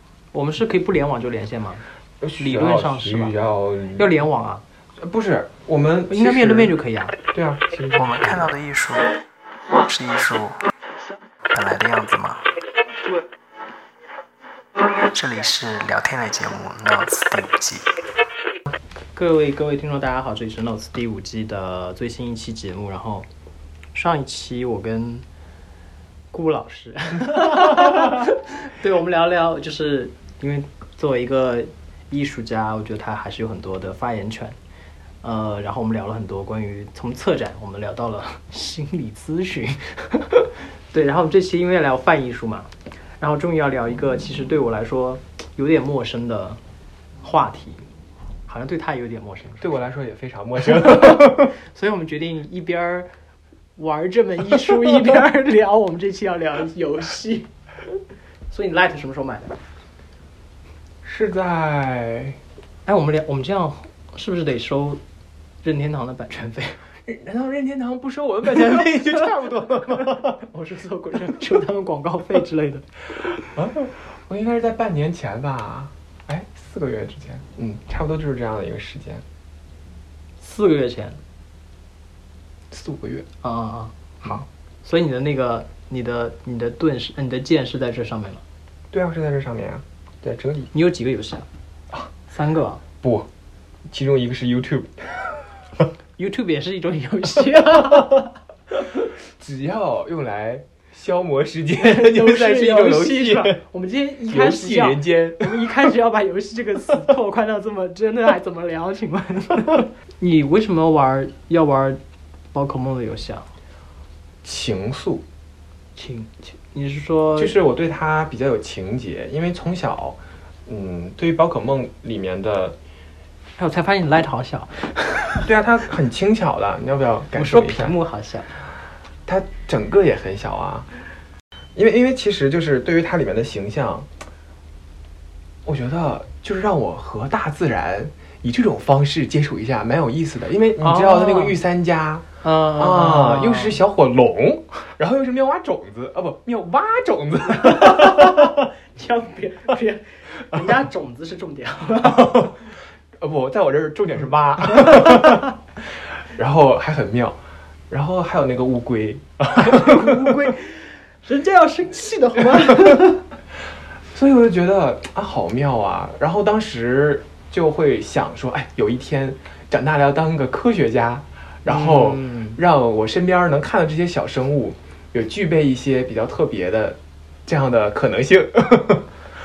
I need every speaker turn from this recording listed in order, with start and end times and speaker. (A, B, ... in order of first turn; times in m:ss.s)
0:00.3-0:01.8 A
0:02.2-0:04.1 B
0:02.4-0:03.3 A
0:04.0-0:04.6 A
0:05.0-0:06.7 B
0:06.1-0:07.2 A
0:07.3-0:08.5 B
0:07.9-0:09.2 C
0:09.8-0:10.6 C
0:11.5-0:12.4 C
0:14.9-0:17.9 C
0:19.1-0:23.3 A
0:23.9-0:25.2 A
0:26.3-0:34.6 A
0:35.2-0:46.6 A
0:47.2-0:47.8 A
0:48.5-0:49.8 A
0:49.6-0:51.5 B
0:50.7-0:53.1 A
0:53.8-0:57.5 A
0:58.5-0:59.6 A
1:01.0-1:02.4 B
1:02.9-1:05.0 A
1:05.6-1:06.8 A
1:07.1-1:10.4 B
1:08.5-1:09.1 A
1:10.1-1:12.9 A
1:13.6-1:19.2 B
1:20.4-1:21.2 A
1:22.7-1:23.3 B
1:23.4-1:28.4 A
1:28.9-1:30.7 B
1:30.7-1:31.5 A
1:32.3-1:32.8 A
1:33.0-1:33.3 B
1:33.9-1:35.4 B
1:36.2-1:38.3 A
1:39.4-1:43.6 B
1:41.8-1:52.0 A
1:44.3-1:45.5 B
1:52.5-1:53.5 A
1:54.4-1:55.2 B
1:56.0-1:57.6 A
1:57.4-2:02.8 B
2:03.6-2:05.5 A
2:05.4-2:08.0 B
2:07.4-2:08.5 A
2:09.3-2:10.9 B
2:11.8-2:14.1 B
2:15.6-2:28.7 B
2:20.8-2:21.6 A
2:22.4-2:23.8 A
2:27.5-2:32.5 A
2:32.0-2:32.6 B
2:33.2-2:35.5 B
2:34.9-2:35.2 A
2:36.3-2:37.4 B
2:37.9-2:40.5 B
2:39.6-2:43.2 A
2:44.1-2:59.1 B
2:51.7-2:52.6 A